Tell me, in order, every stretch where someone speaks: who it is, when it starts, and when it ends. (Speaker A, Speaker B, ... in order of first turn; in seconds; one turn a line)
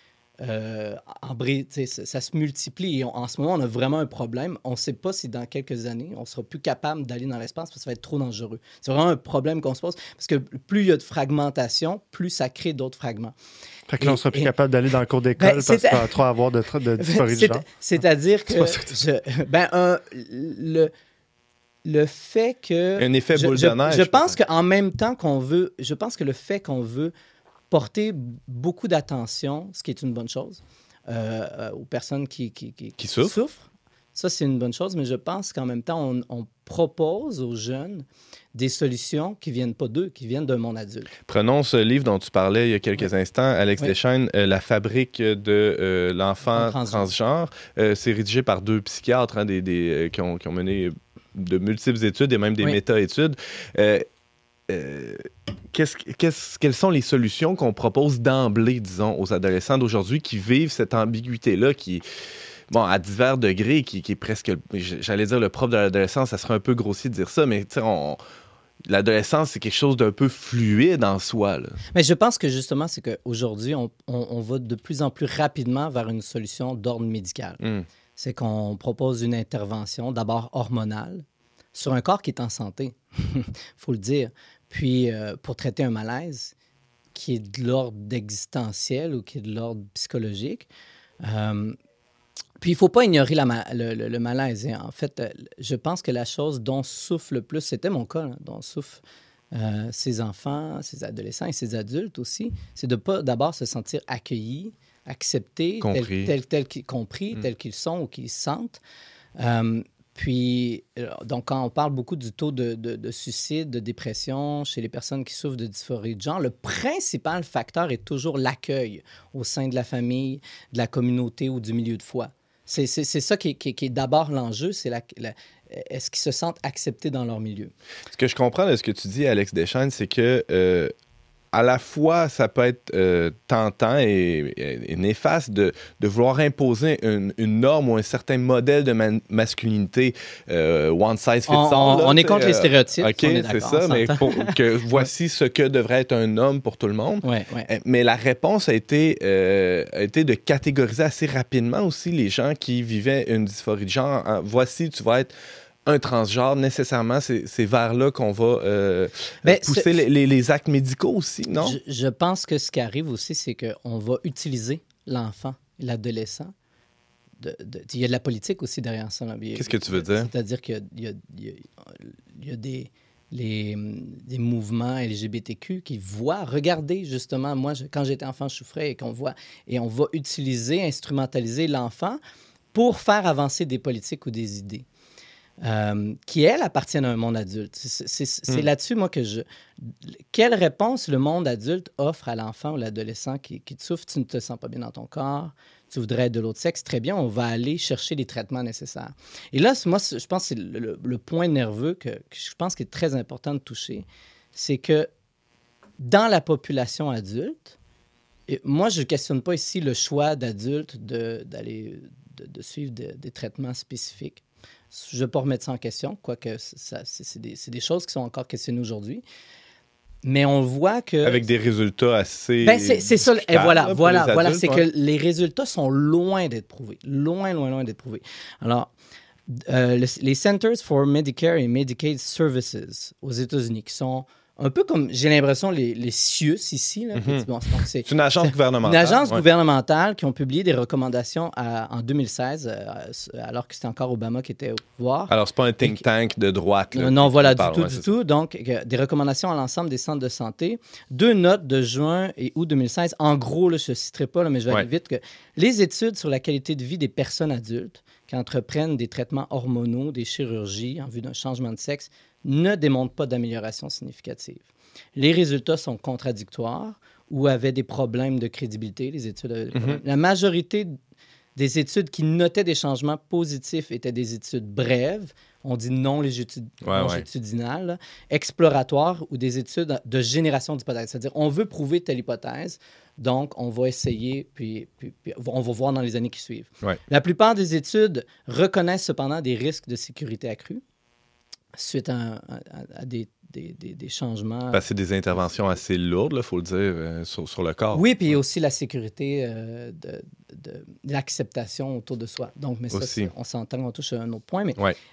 Speaker A: 0.4-13.3
Speaker B: 13.9-17.6
Speaker A: 14.0-14.5
Speaker A: 15.4-16.2
Speaker A: 17.0-20.9
Speaker B: 18.5-18.9
Speaker A: 21.8-27.1
Speaker C: 23.0-24.4
Speaker A: 27.7-41.1
Speaker C: 33.0-33.4
Speaker C: 41.2-54.0
Speaker A: 46.5-47.1
Speaker C: 54.7-62.0
Speaker C: 62.7-68.2
Speaker C: 68.9-71.8
Speaker A: 71.9-77.6
Speaker C: 77.6-77.8
Speaker A: 78.2-86.5
Speaker A: 87.1-90.7
Speaker A: 91.2-91.8
Speaker A: 92.6-108.8
Speaker C: 105.8-106.3
Speaker A: 109.4-127.7
Speaker C: 128.1-130.9
Speaker C: 131.5-155.3
Speaker A: 141.5-145.1
Speaker A: 147.2-147.7
Speaker C: 155.8-161.8
Speaker A: 159.4-160.0
Speaker A: 161.5-166.5
Speaker A: 167.4-182.2
Speaker C: 169.6-170.3
Speaker A: 182.7-184.8
Speaker A: 185.6-205.1
Speaker A: 206.0-207.7
Speaker A: 208.5-219.2
Speaker A: 220.2-221.5
Speaker C: 221.2-224.8
Speaker A: 222.6-228.9
Speaker A: 229.5-246.0
Speaker C: 237.1-237.5
Speaker C: 238.0-239.4
Speaker C: 245.3-248.1
Speaker A: 246.9-264.6
Speaker A: 265.1-270.9
Speaker C: 269.7-270.0
Speaker A: 271.6-290.8
Speaker C: 276.8-277.2
Speaker A: 291.8-294.9
Speaker C: 294.7-298.3
Speaker A: 297.9-304.8
Speaker C: 302.9-303.3